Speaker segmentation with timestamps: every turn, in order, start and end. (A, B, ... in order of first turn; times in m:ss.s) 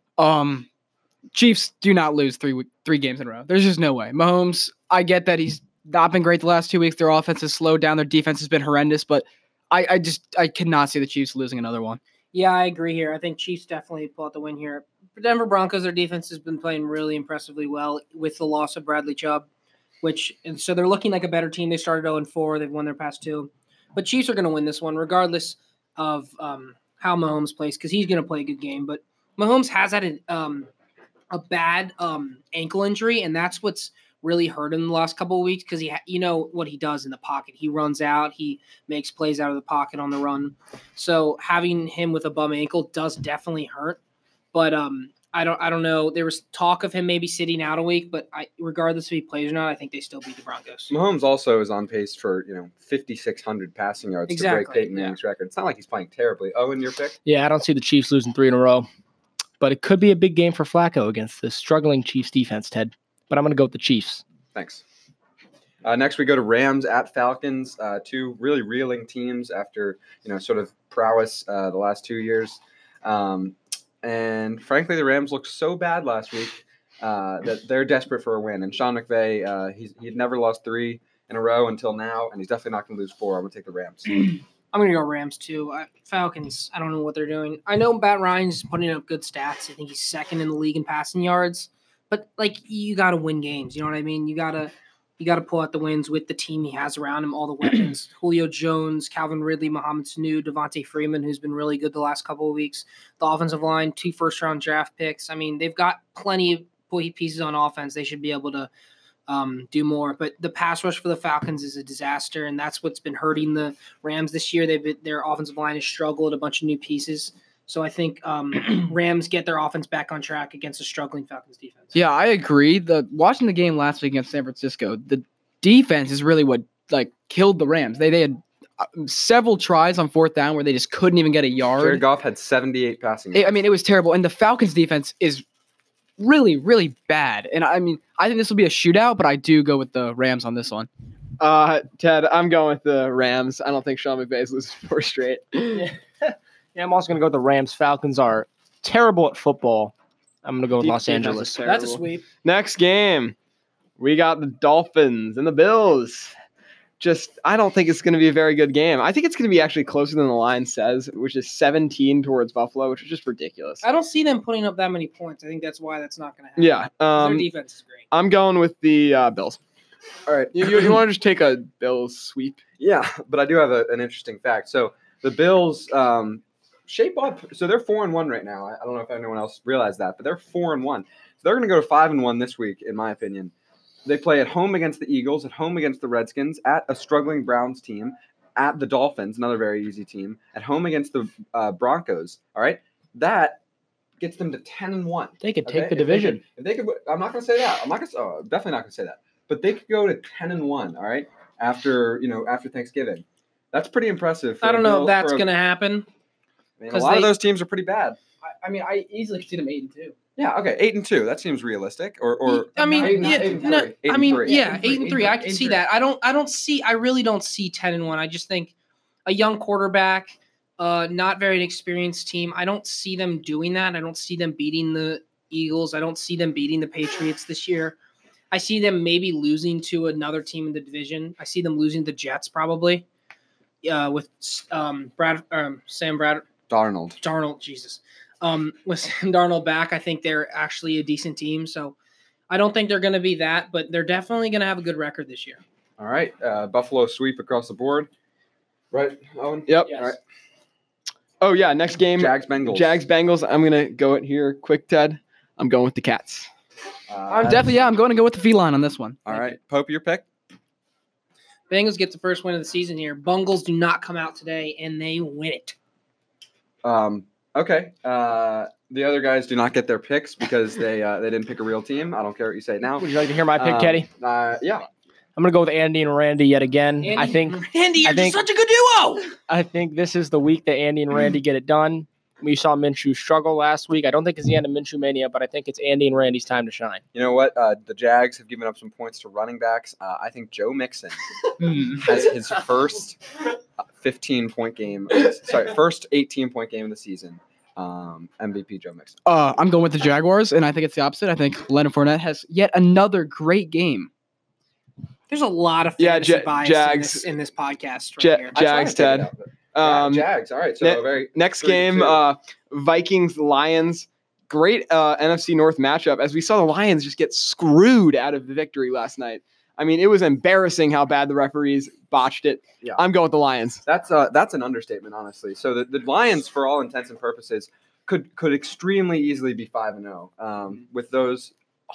0:00.2-0:00.7 A
0:01.3-0:12.0 A
0:12.3-0:19.5 B
0:20.0-0:30.7 B
0:31.3-0:44.0 B
0:44.5-0:50.9 B
0:50.9-0:57.2 C
0:54.3-0:55.2 B
0:57.2-0:58.9 D
0:59.6-1:04.2 D
1:04.5-1:04.8 C
1:05.8-1:24.2 C
1:24.7-1:48.7 B
1:49.3-2:02.0 B
2:01.9-2:12.0 A
2:11.8-2:13.6 C
2:13.3-2:15.4 A
2:16.2-2:20.9 A
2:21.4-2:25.9 E
2:25.7-2:29.9 D
2:30.4-2:32.0 D
2:30.8-2:33.3 E
2:31.6-2:32.2 B
2:34.0-2:36.3 E
2:37.0-2:43.8 E
2:43.8-2:48.1 B
2:46.6-2:47.5 E
2:48.1-2:49.6 E
2:50.2-2:51.0 C
2:50.5-2:52.6 E
2:52.8-3:03.5 C
3:04.0-3:13.6 C
3:14.2-3:25.4 C
3:15.4-3:16.4 D
3:24.6-3:26.1 B
3:26.8-3:28.2 C
3:26.9-3:27.3 B
3:28.4-3:30.1 A
3:30.4-3:34.6 C
3:32.4-3:38.7 B
3:32.9-3:33.7 A
3:34.4-3:35.8 A
3:39.2-3:48.0 B
3:48.5-3:53.0 B
3:53.8-3:56.5 B
3:56.7-3:57.2 C
3:57.2-4:02.0 B
4:02.5-4:05.6 B
4:06.0-4:08.1 C
4:08.9-4:10.2 C
4:09.7-4:10.1 E
4:11.4-4:16.5 E
4:12.2-4:13.0 C
4:17.1-4:17.9 C
4:17.3-4:19.4 A
4:19.2-4:20.2 C
4:21.7-4:25.8 B
4:26.8-4:34.9 C
4:33.0-4:34.1 D
4:35.4-4:38.4 D
4:37.0-4:39.3 B
4:39.5-4:47.0 D
4:47.1-4:51.2 C
4:51.6-4:52.1 A
4:52.0-4:53.2 C
4:53.8-4:59.2 C
4:59.2-5:04.1 A
5:05.3-5:08.6 B
5:06.0-5:07.3 E
5:08.2-5:10.3 E
5:08.5-5:12.2 C
5:10.8-5:23.8 E
5:23.8-5:31.5 C